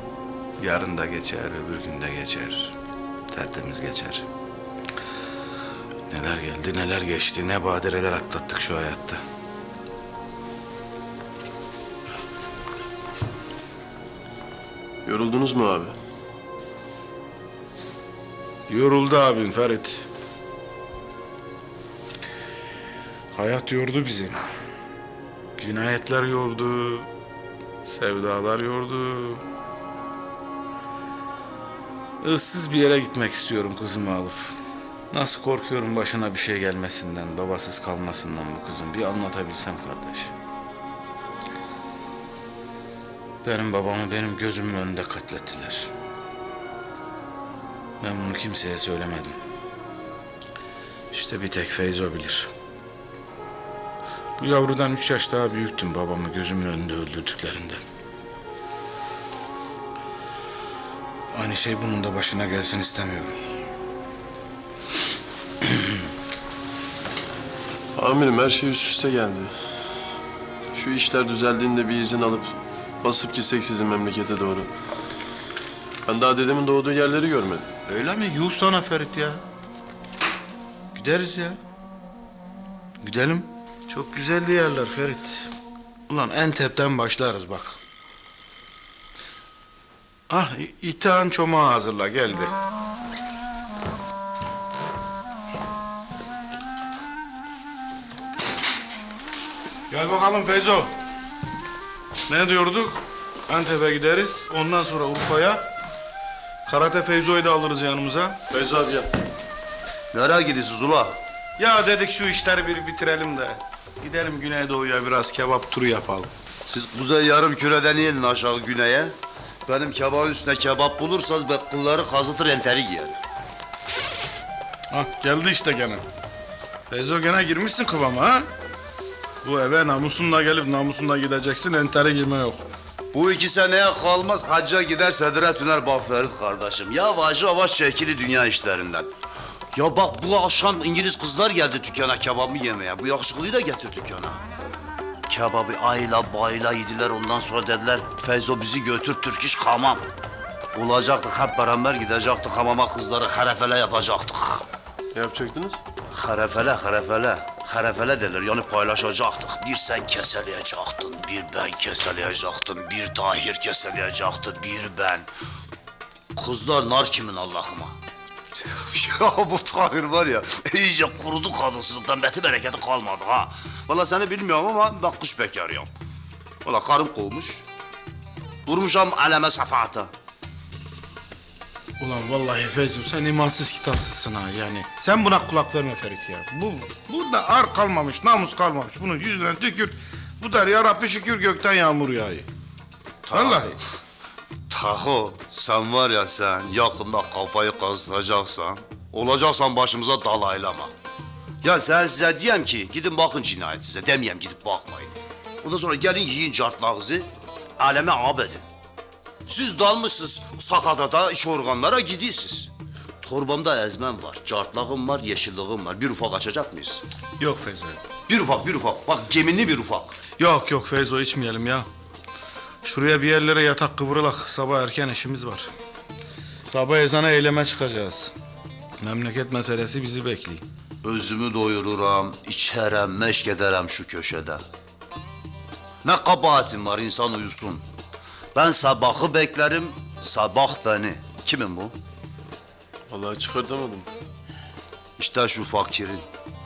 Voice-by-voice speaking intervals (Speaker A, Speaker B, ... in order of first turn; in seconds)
Speaker A: 0.6-2.7, 3.3-4.2, 6.1-9.2, 18.7-20.1, 23.3-24.4, 25.6-27.1, 27.8-29.4, 32.2-34.6, 35.1-40.3, 43.4-45.9, 48.0-49.4, 51.1-52.5, 54.4-57.8, 61.3-63.4, 77.8-79.4, 80.9-81.6, 83.0-85.5, 86.1-87.8, 90.3-92.5, 99.9-100.9, 102.3-105.6, 106.7-108.4, 111.6-116.3, 124.9-126.0, 126.9-128.5, 129.4-132.6, 182.0-192.5, 193.3-193.8, 217.4-218.0, 220.4-221.9, 222.8-225.7, 226.6-228.3, 229.0-230.6
Speaker B: 15.0-15.9, 68.0-69.7, 70.7-74.7, 76.0-77.7, 108.5-109.1, 155.1-155.8, 243.1-244.1
Speaker C: 110.1-111.2, 116.7-119.1, 119.7-123.2, 133.1-139.1, 139.7-144.4, 145.3-150.0, 150.7-154.6, 156.1-165.3, 166.3-167.9, 168.5-175.9, 176.6-177.6, 178.7-180.1, 193.2-193.8, 194.7-200.9, 201.6-207.3, 207.8-208.6, 209.4-212.7, 213.2-217.0, 218.3-220.1, 231.0-234.6, 236.0-237.8, 238.5-241.9, 245.2-246.2